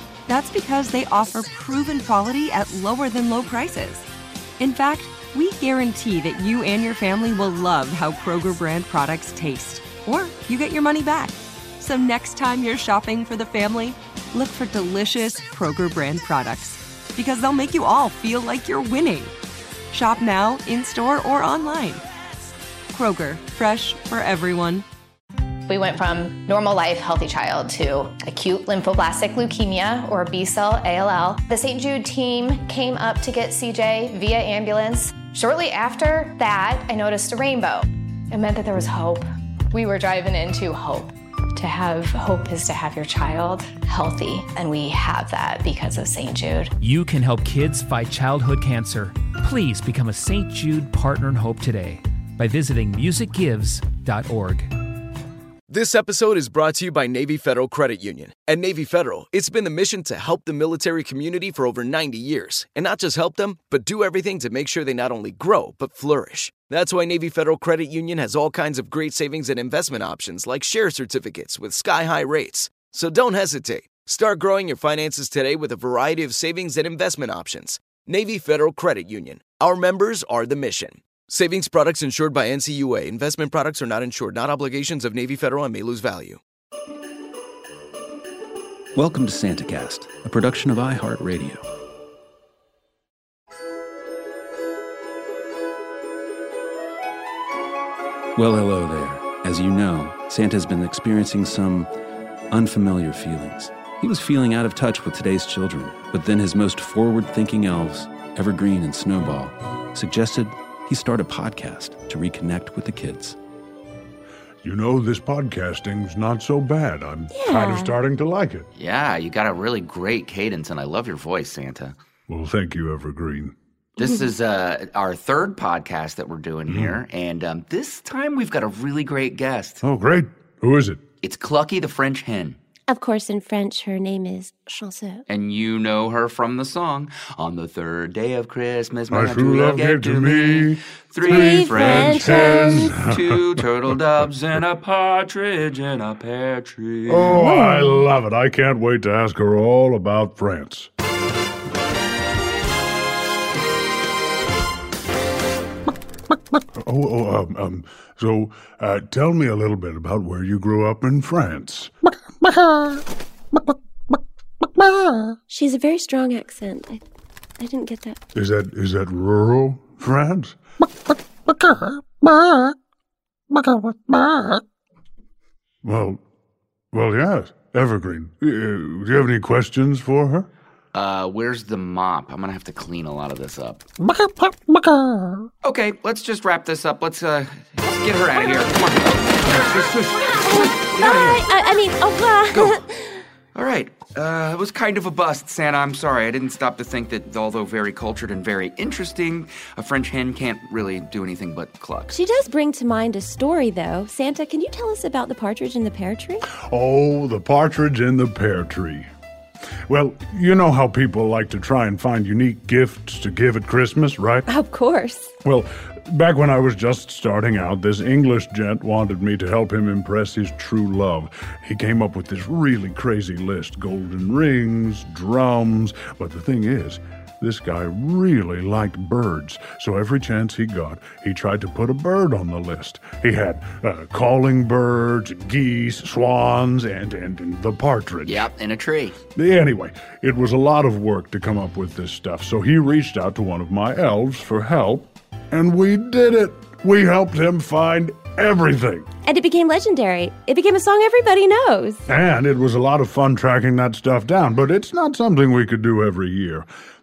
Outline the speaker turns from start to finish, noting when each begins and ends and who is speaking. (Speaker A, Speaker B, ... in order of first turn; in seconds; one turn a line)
Speaker A: 0.3-4.1
Speaker A: 4.6-19.4
Speaker A: 19.9-22.0
Speaker A: 22.9-24.9
Speaker B: 25.7-46.7
Speaker C: 46.8-54.7
Speaker D: 55.7-86.4
Speaker E: 89.0-91.7
Speaker E: 98.4-101.9
Speaker E: 102.5-113.4
Speaker F: 114.6-118.7
Speaker G: 117.3-118.0
Speaker H: 118.8-122.0
Speaker F: 122.3-123.5
Speaker H: 124.0-129.8
Speaker F: 126.7-127.0
Speaker F: 129.8-131.0
Speaker H: 131.2-132.6
Speaker G: 132.9-135.2
Speaker H: 135.3-147.4
Speaker F: 139.1-144.0
Speaker G: 141.2-142.9
Speaker F: 147.1-150.9
Speaker G: 147.3-148.0
Speaker F: 156.8-161.9
Speaker G: 165.5-167.0
Speaker G: 167.6-168.2
Speaker F: 168.3-170.6
Speaker F: 173.7-174.3
Speaker F: 175.8-176.2
Speaker F: 176.9-180.5
Speaker H: 180.9-183.8
Speaker H: 185.6-191.5
Speaker G: 190.4-193.2
Speaker H: 192.5-192.8
Speaker H: 193.6-202.1
Speaker G: 202.1-206.5
Speaker F: 206.7-209.1
Speaker F: 209.9-214.5
Speaker G: 214.5-215.3
Speaker F: 215.4-238.5
Speaker H: 238.2-239.2
Speaker F: 239.3-249.1
Speaker G: 249.2-252.0
Speaker F: 252.1-256.7